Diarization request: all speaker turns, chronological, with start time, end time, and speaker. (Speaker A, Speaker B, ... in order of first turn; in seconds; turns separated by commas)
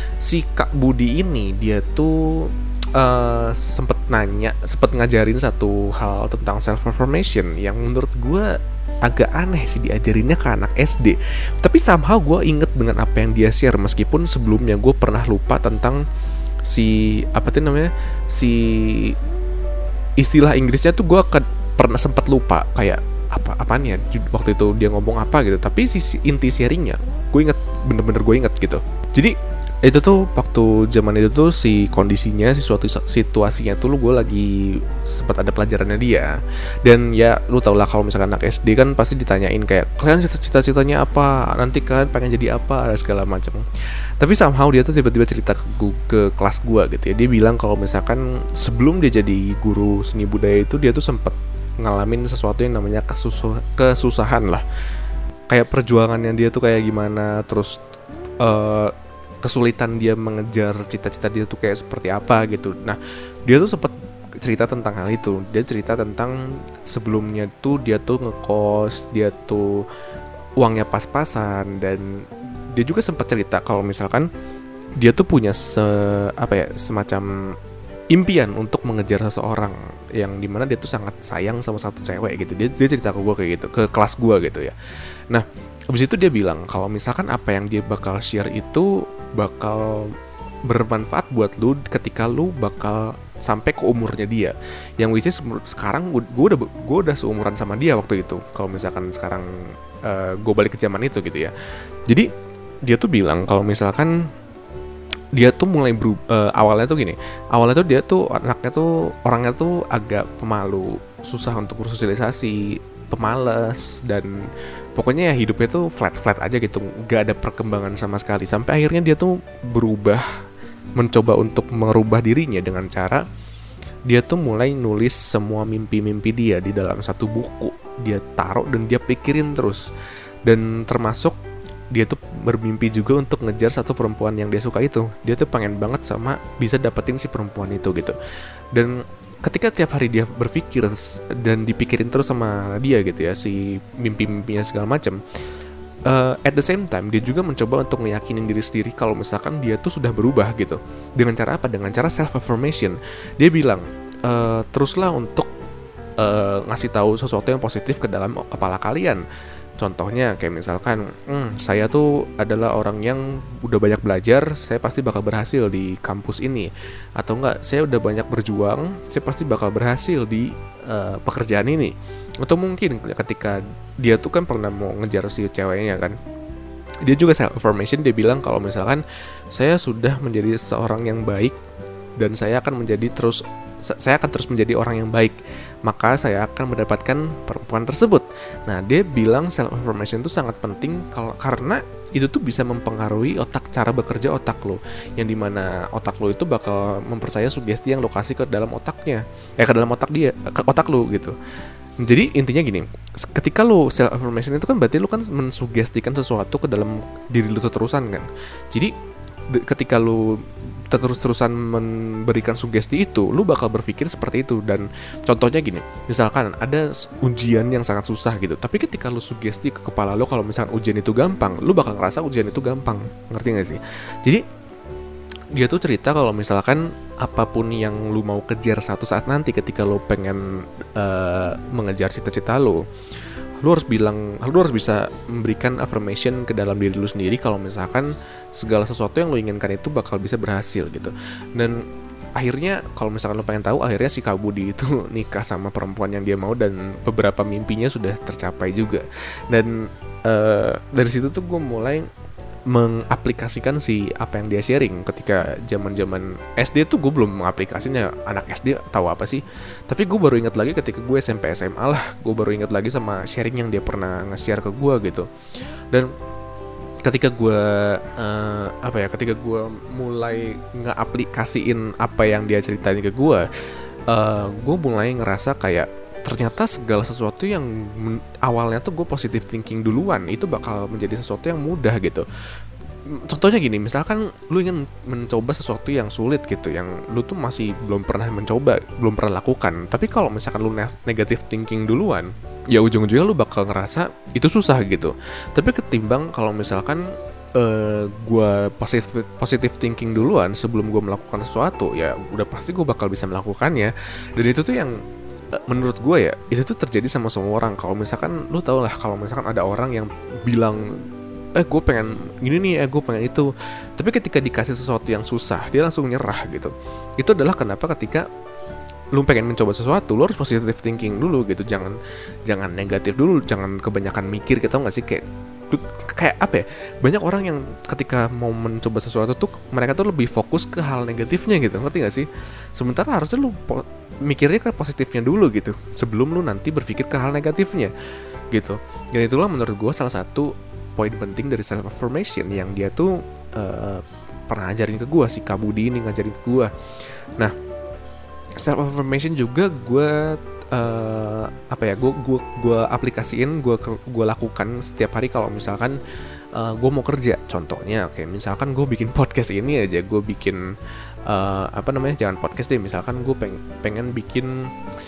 Speaker A: 0.2-16.1, Speaker A: 16.7-19.2, Speaker A: 20.2-43.7, Speaker A: 44.2-54.6, Speaker A: 55.5-57.8, Speaker A: 58.4-69.9, Speaker A: 70.6-74.3, Speaker A: 75.0-77.5, Speaker A: 78.1-84.8, Speaker A: 85.3-90.2, Speaker A: 90.7-101.5, Speaker A: 102.8-104.2, Speaker A: 105.3-120.3, Speaker A: 121.0-123.2, Speaker A: 124.1-129.9, Speaker A: 130.4-131.4, Speaker A: 131.9-138.2, Speaker A: 138.7-145.2, Speaker A: 146.1-155.5, Speaker A: 156.2-159.2, Speaker A: 159.8-176.2, Speaker A: 177.0-181.6, Speaker A: 182.2-201.3, Speaker A: 202.0-208.9, Speaker A: 209.5-224.4, Speaker A: 225.5-232.9, Speaker A: 233.6-241.8, Speaker A: 242.3-252.1, Speaker A: 252.7-265.3, Speaker A: 267.0-273.5, Speaker A: 274.1-282.3, Speaker A: 283.1-305.0, Speaker A: 305.6-318.3, Speaker A: 319.1-337.9, Speaker A: 338.5-346.7, Speaker A: 348.6-356.0, Speaker A: 356.5-360.7, Speaker A: 361.3-364.7